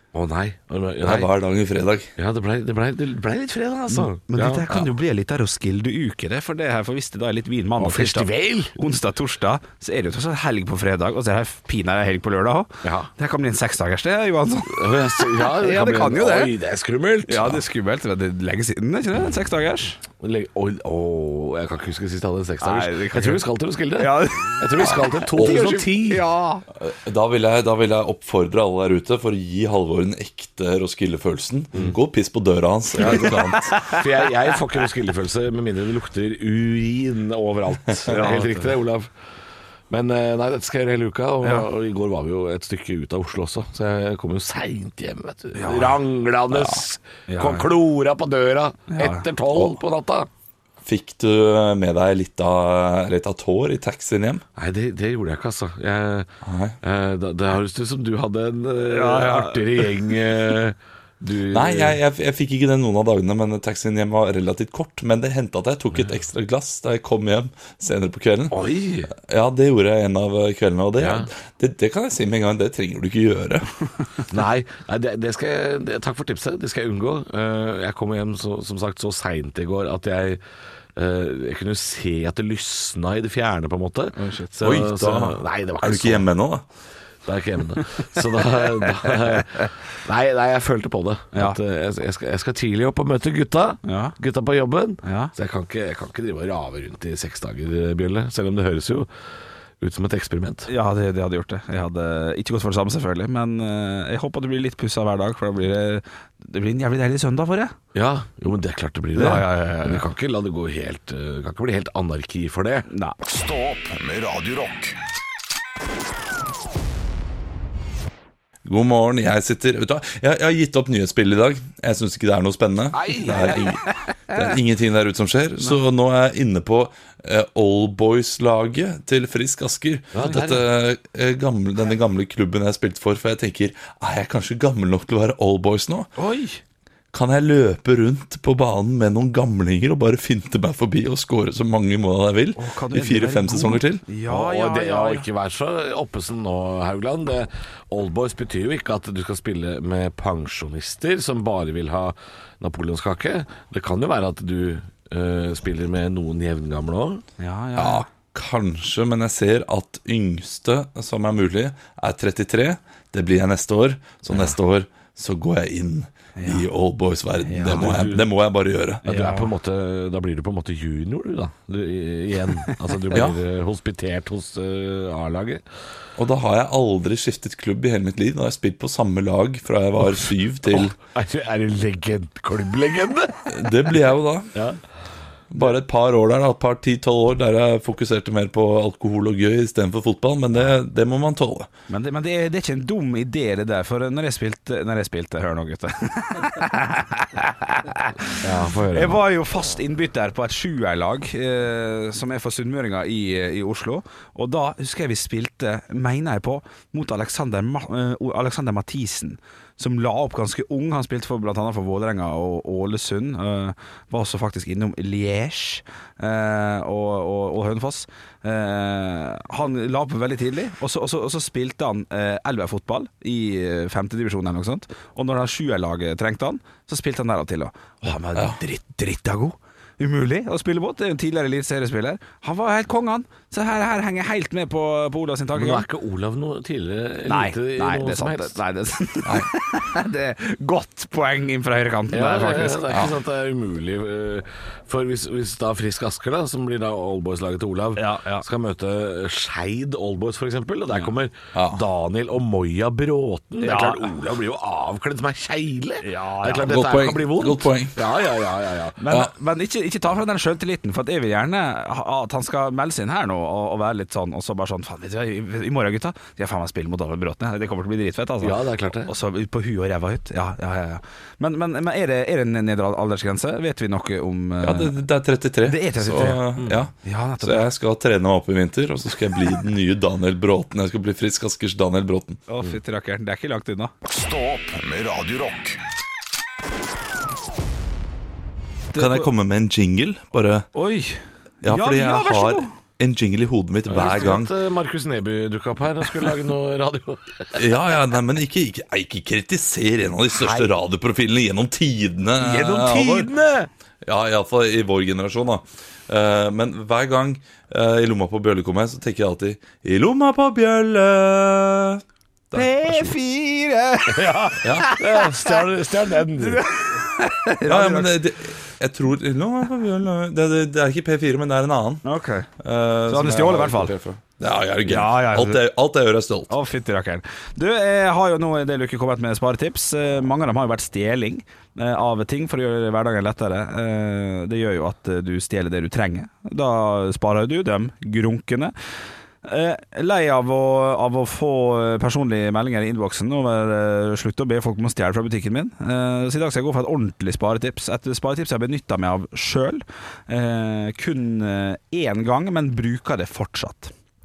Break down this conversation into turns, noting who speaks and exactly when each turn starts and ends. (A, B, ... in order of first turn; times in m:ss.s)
0:00.1-0:01.3 A
0:01.0-0:02.1 B
0:02.2-0:04.8 A
0:03.9-0:16.5 C
0:07.8-0:08.8 A
0:12.8-0:13.1 A
0:14.7-0:17.6 A
0:17.3-0:20.0 C
0:20.2-0:26.2 A
0:22.6-0:26.6 C
0:25.4-0:25.8 B
0:26.8-0:33.8 B
0:33.0-0:39.1 A
0:33.0-0:34.0 C
0:38.1-0:38.7 C
0:39.9-0:50.3 A
0:45.5-0:46.0 C
0:47.3-0:47.7 C
0:48.9-0:49.3 C
0:50.8-0:54.4 B
0:54.6-0:56.3 A
0:56.4-0:56.8 B
0:56.8-1:02.0 A
0:58.9-0:59.9 C
1:01.5-1:13.7 B
1:08.5-1:09.1 A
1:11.0-1:11.3 A
1:14.3-1:20.4 A
1:21.0-1:26.3 A
1:24.2-1:24.6 C
1:24.6-1:26.6 B
1:27.2-1:39.1 A
1:31.3-1:31.6 C
1:33.8-1:34.2 C
1:35.0-1:35.3 C
1:39.8-1:40.7 A
1:40.7-1:47.7 C
1:47.9-1:52.9 A
1:49.2-1:50.0 C
1:52.9-1:53.2 C
1:53.2-1:55.0 D
1:58.6-2:16.1 B
2:02.9-2:03.7 A
2:10.1-2:10.7 A
2:16.2-2:16.6 C
2:17.1-2:24.0 B
2:22.6-2:25.3 C
2:24.3-2:37.2 A
2:37.4-2:38.1 C
2:37.8-2:49.0 B
2:46.4-2:46.7 C
2:47.5-2:48.0 C
2:47.6-2:48.3 A
2:49.0-2:55.6 A
2:49.0-2:49.5 C
2:53.1-2:53.4 B
2:56.2-3:01.0 B
3:00.7-3:03.5 A
3:03.5-3:04.5 B
3:04.5-3:04.8 A
3:05.5-3:11.7 B
3:11.9-3:55.9 C
3:18.4-3:19.2 A
3:55.6-3:58.6 A
3:57.2-4:03.0 C
4:02.1-4:19.0 A
4:08.0-4:08.5 C
4:11.5-4:11.8 B
4:13.6-4:14.2 C
4:16.0-4:16.7 C
4:16.6-4:18.0 B
4:19.0-4:35.0 C
4:28.4-4:29.1 A
4:34.6-4:42.4 B
4:35.6-4:36.5 C
4:37.0-4:37.7 C
4:42.5-4:43.9 C
4:44.1-4:45.8 D
4:48.9-4:49.3 C
4:49.0-4:50.7 B
4:50.8-4:52.7 C
4:51.6-4:54.5 B
4:53.9-4:57.7 A
4:57.5-5:03.3 B
5:00.3-5:00.7 A
5:02.4-5:03.7 A
5:04.0-5:13.2 B
5:12.5-5:15.6 C
5:14.1-5:16.6 A
5:14.6-5:14.9 B
5:16.4-5:18.2 C
5:17.7-5:22.0 B
5:22.0-5:22.5 C
5:22.6-5:26.5 B
5:23.1-5:23.9 C
5:24.9-5:25.6 C
5:26.5-5:38.7 C
5:39.4-5:53.9 C